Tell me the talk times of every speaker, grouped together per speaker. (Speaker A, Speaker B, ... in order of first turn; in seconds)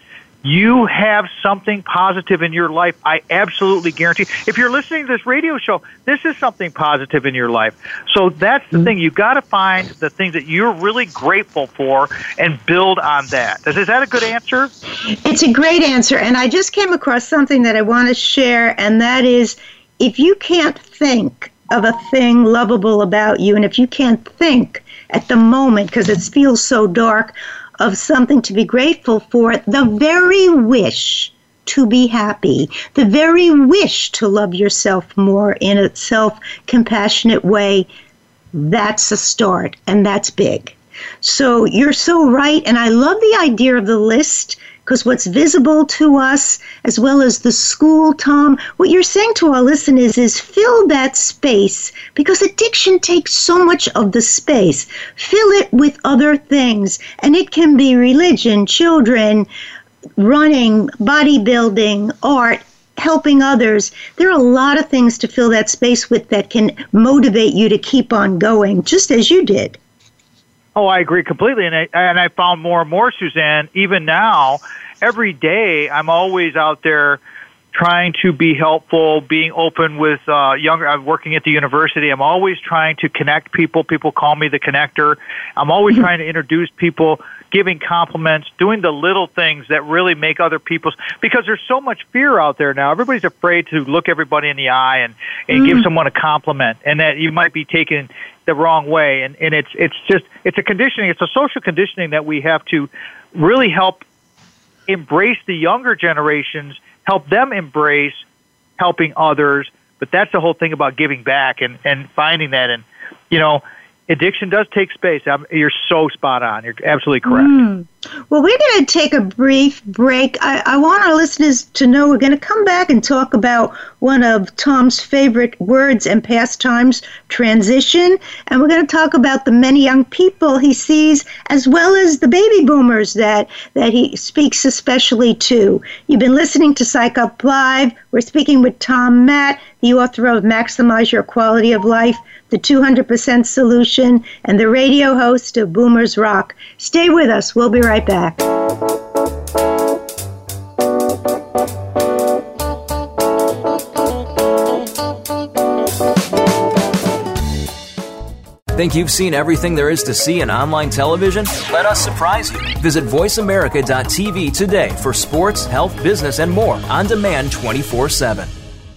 Speaker A: 0.4-14.7, 70.8-77.2, 77.7-104.0, 104.9-108.2, 108.8-117.6
Speaker B: 15.1-37.9, 38.5-59.5, 60.2-69.8, 95.5-95.9, 117.2-148.4
Speaker C: 158.7-168.5